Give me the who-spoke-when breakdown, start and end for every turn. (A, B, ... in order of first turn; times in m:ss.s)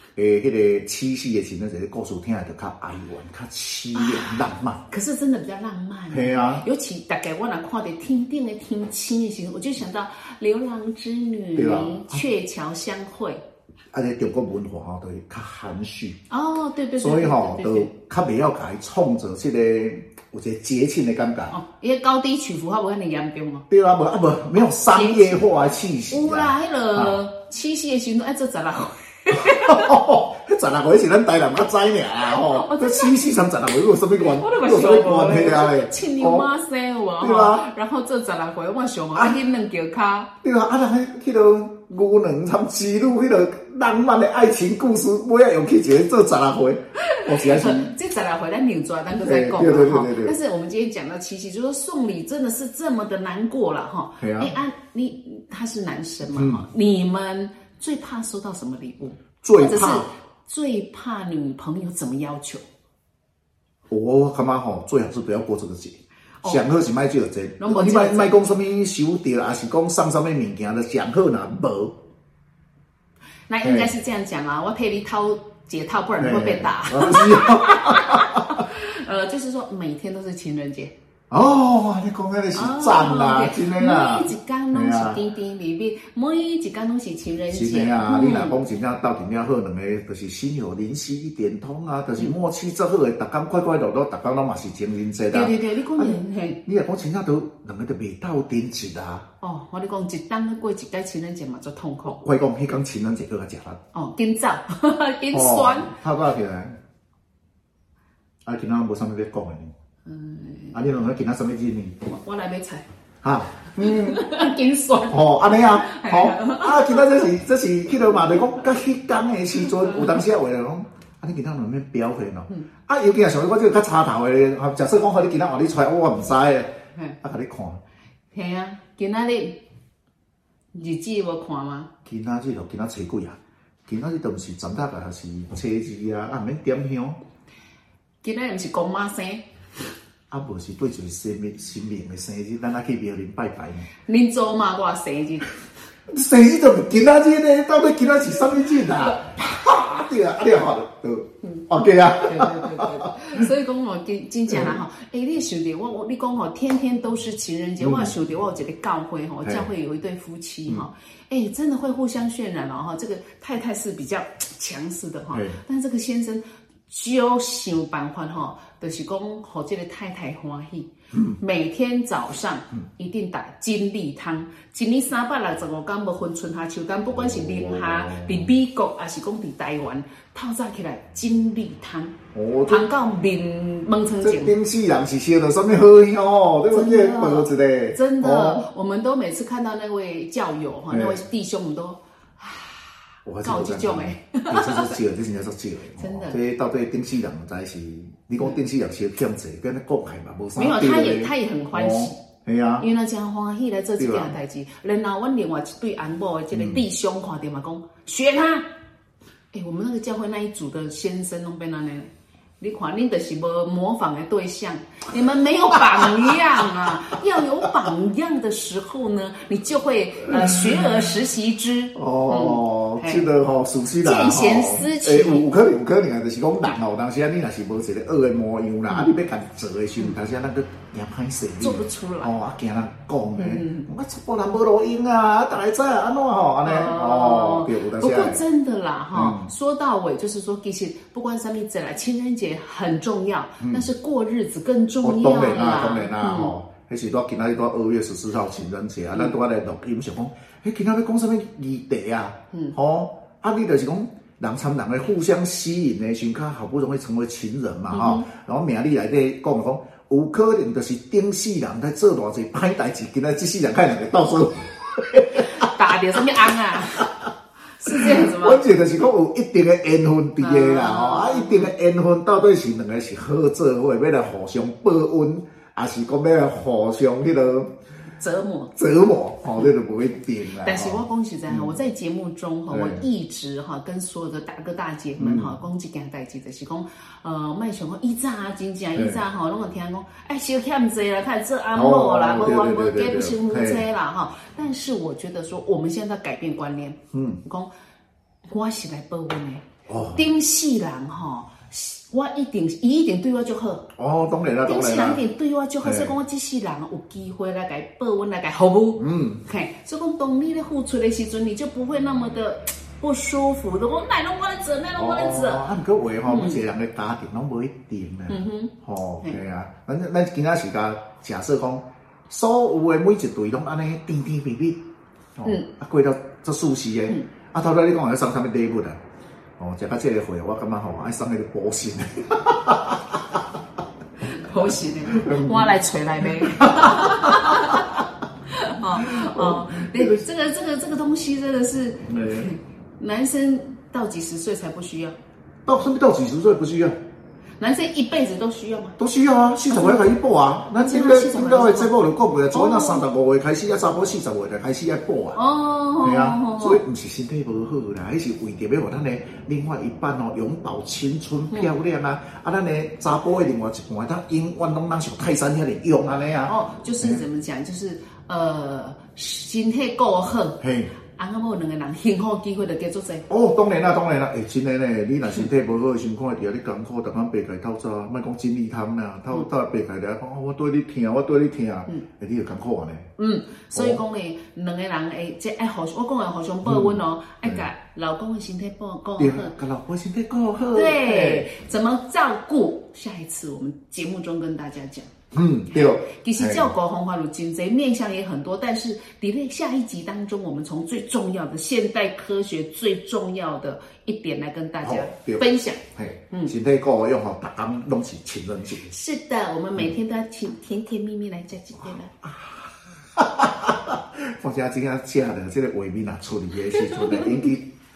0:00.2-0:04.8 A
0:03.9-0:13.4 B
0:06.1-0:06.7 A
0:11.6-0:12.2 A
0:13.9-0:16.2 A
0:16.3-0:17.9 B
0:17.0-0:21.6 A
0:21.5-0:23.6 B
0:23.7-0:27.2 A
0:24.6-0:25.4 B
0:26.1-0:30.0 B
0:29.3-0:36.5 A
0:32.2-0:33.3 B
0:34.2-0:40.3 B
0:37.2-0:37.6 A
0:40.4-0:47.9 A
0:47.0-1:02.7 B
0:49.2-0:50.4 A
0:54.2-0:54.5 A
0:56.3-0:56.6 A
0:59.4-1:00.1 A
1:03.9-1:12.0 A
1:07.6-1:08.3 B
1:13.5-1:20.9 B
1:13.6-1:13.9 A
1:16.2-1:18.6 A
1:21.3-1:25.2 A
1:22.5-1:28.6 B
1:27.5-1:39.3 A
1:35.3-1:36.6 B
1:39.4-1:42.2 B
1:42.1-1:43.8 A
1:43.9-1:46.0 B
1:45.3-1:46.8 A
1:48.5-1:49.7 A
1:50.0-1:50.8 B
1:50.7-1:52.0 A
1:52.0-1:52.9 B
1:53.2-1:54.2 A
1:53.7-1:57.3 B
1:55.1-2:07.8 A
1:59.6-2:00.2 B
2:08.3-2:09.6 B
2:10.7-2:11.9 B
2:12.1-2:17.2 A
2:18.2-2:19.4 B
2:20.3-2:23.9 A
2:24.1-2:25.6 B
2:26.1-2:33.5 A
2:29.1-2:29.8 B
2:32.2-3:04.6 B
2:34.5-2:34.8 A
2:37.8-2:38.1 A
2:45.3-2:45.6 A
2:51.1-2:51.4 A
2:57.1-2:58.5 A
3:02.3-3:02.9 A
3:04.2-3:08.6 A
3:06.7-3:15.0 B
3:10.9-3:11.2 A
3:13.3-3:22.9 A
3:16.0-3:16.4 B
3:20.6-3:22.2 B
3:22.8-3:28.7 B
3:24.0-3:24.4 A
3:26.5-3:26.8 A
3:29.5-3:32.1 B
3:32.6-3:43.3 B
3:36.0-3:36.5 A
3:40.3-3:40.7 A
3:42.0-3:58.4 A
3:44.0-3:45.5 B
3:48.9-3:49.1 B
3:51.6-3:52.4 B
3:53.4-3:53.9 B
3:56.6-4:06.6 B
3:59.1-3:59.5 A
4:03.6-4:03.9 A
4:05.0-4:25.7 A
4:17.9-4:18.3 B
4:25.3-4:27.1 B
4:27.7-4:28.7 B
4:27.9-4:37.7 A
4:30.4-4:31.7 B
4:38.2-4:38.8 B
4:38.8-4:41.8 A
4:40.5-4:57.7 B
4:42.7-4:43.0 A
4:45.2-4:45.5 A
4:49.0-4:49.2 A
4:51.7-4:53.8 A
4:57.1-4:57.4 A
4:58.5-5:03.9 B
4:59.9-5:00.2 A
5:04.0-5:05.2 A
5:04.6-5:15.7 B
5:05.8-5:06.1 A
5:09.0-5:09.4 A
5:14.9-5:24.8 A
5:16.2-5:16.6 B
5:18.3-5:19.4 B
5:25.4-5:29.0 A
5:29.6-5:33.4 A
5:34.2-5:45.2 B
5:35.1-5:35.8 A
5:36.3-5:37.8 A
5:39.0-5:40.2 A
5:42.1-5:42.5 A
5:45.7-5:47.0 A
5:47.6-5:49.0 B
5:49.0-5:55.4 A
5:49.7-5:50.1 B
5:50.8-5:52.0 B
5:52.5-5:53.0 B
5:55.4-5:56.8 B
5:56.0-6:07.2 A
6:06.4-6:10.6 B
6:10.6-6:10.9 A
6:11.2-6:13.3 B
6:13.3-6:23.1 A
6:23.2-6:29.5 B
6:23.7-6:24.0 A
6:26.6-6:27.7 A
6:29.2-6:31.5 A
6:30.7-6:35.1 B
6:35.3-6:36.7 A
6:35.7-6:46.5 B
6:44.8-6:48.9 A
6:48.8-6:52.1 B
6:52.2-6:57.7 A
6:56.8-6:57.5 B